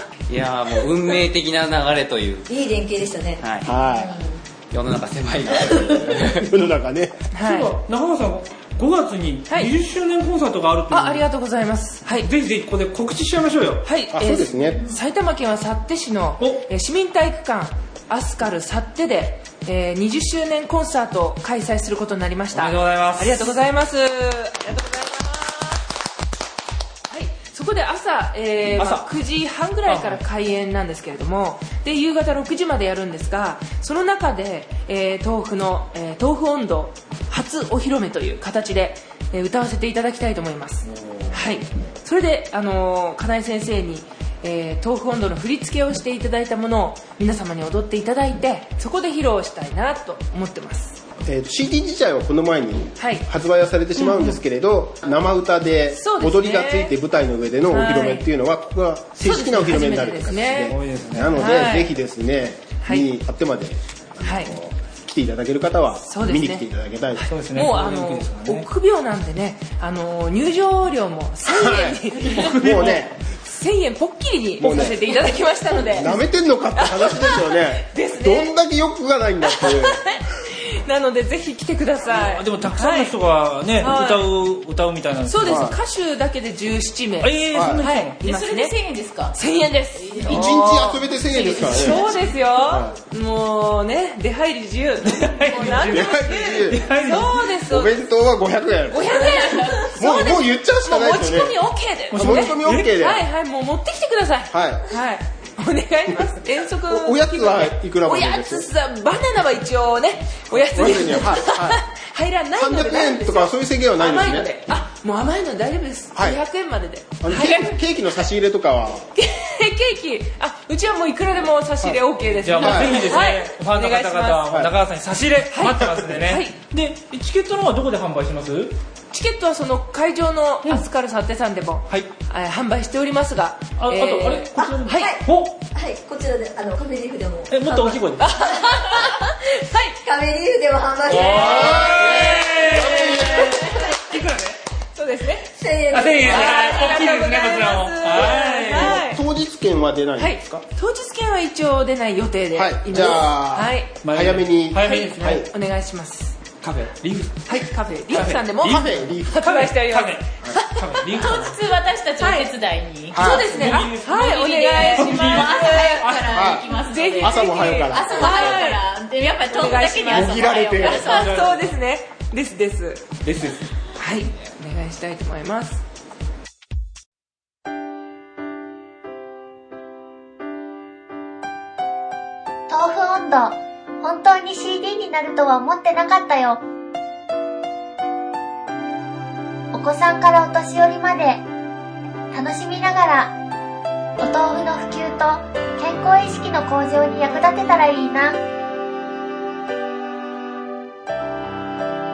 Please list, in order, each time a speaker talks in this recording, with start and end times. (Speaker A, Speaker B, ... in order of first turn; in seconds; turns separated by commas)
Speaker A: 0.3-2.5, Speaker B: 2.5-3.5, Speaker A: 3.4-3.7, Speaker C: 3.6-4.2, Speaker D: 3.9-4.3, Speaker A: 4.7-6.5, Speaker C: 6.3-7.2, Speaker E: 7.3-7.7, Speaker F: 7.4-11.2, Speaker E: 9.5-9.7, Speaker E: 10.9-12.3, Speaker F: 12.2-13.8, Speaker E: 13.8-25.8, Speaker C: 14.1-14.9, Speaker F: 22.5-23.6, Speaker E: 27.1-51.0, Speaker F: 28.8-29.1, Speaker F: 29.9-30.2, Speaker C: 51.2-67.2, Speaker E: 53.0-53.2, Speaker F: 54.0-54.3, Speaker E: 55.9-56.9, Speaker E: 57.7-58.3, Speaker E: 59.2-60.8, Speaker F: 60.7-61.3, Speaker E: 61.3-61.9, Speaker E: 62.8-63.1, Speaker E: 64.2-64.5, Speaker E: 66.0-72.5, Speaker F: 67.3-68.7, Speaker C: 71.5-73.1, Speaker F: 72.4-73.0, Speaker E: 73.4-76.1, Speaker C: 74.6-80.0, Speaker E: 76.8-78.5, Speaker E: 79.5-80.2, Speaker E: 80.7-83.2, Speaker F: 82.0-85.7, Speaker E: 83.8-84.3, Speaker E: 85.2-88.7, Speaker C: 85.4-85.8, Speaker F: 87.2-88.2, Speaker C: 87.5-87.8, Speaker D: 88.2-89.4, Speaker E: 89.3-98.0, Speaker D: 90.0-90.5, Speaker C: 90.2-93.0, Speaker F: 95.0-97.5, Speaker C: 95.8-96.9, Speaker C: 97.7-99.3, Speaker E: 98.9-117.8, Speaker D: 99.2-99.8, Speaker C: 99.9-101.6, Speaker C: 102.1-103.2, Speaker F: 102.2-102.9, Speaker C: 104.5-104.8, Speaker C: 106.9-108.7, Speaker C: 110.7-111.8, Speaker C: 112.5-114.5, Speaker C: 116.1-116.4, Speaker C: 117.2-119.1, Speaker E: 119.2-124.5, Speaker F: 122.4-128.8, Speaker C: 122.6-123.0, Speaker C: 124.5-124.7, Speaker E: 125.5-126.5, Speaker E: 129.1-135.1, Speaker F: 133.8-135.6, Speaker B: 134.5-138.0, Speaker F: 137.5-138.4, Speaker E: 138.2-139.9, Speaker B: 138.5-138.8, Speaker B: 140.0-141.9, Speaker F: 141.1-144.6, Speaker C: 141.7-143.7, Speaker E: 143.3-143.7, Speaker E: 144.9-145.4, Speaker B: 145.5-146.8, Speaker F: 145.9-149.0, Speaker E: 146.3-149.2, Speaker C: 148.7-150.6, Speaker E: 150.2-153.9, Speaker C: 152.5-155.5, Speaker F: 154.0-155.2, Speaker E: 154.7-156.4, Speaker F: 156.6-161.5, Speaker E: 157.4-161.1, Speaker C: 158.6-159.6, Speaker D: 161.2-171.5, Speaker E: 162.2-162.5, Speaker C: 163.1-163.5, Speaker E: 163.1-166.1, Speaker F: 163.4-164.3, Speaker F: 164.9-166.3, Speaker C: 166.3-168.6, Speaker E: 166.8-168.8, Speaker E: 169.4-173.0, Speaker C: 170.1-171.1, Speaker F: 170.9-171.7, Speaker F: 173.2-173.7, Speaker E: 173.9-175.8, Speaker G: 182.7-186.6, Speaker G: 189.7-191.4, Speaker G: 192.3-193.3, Speaker G: 194.2-198.4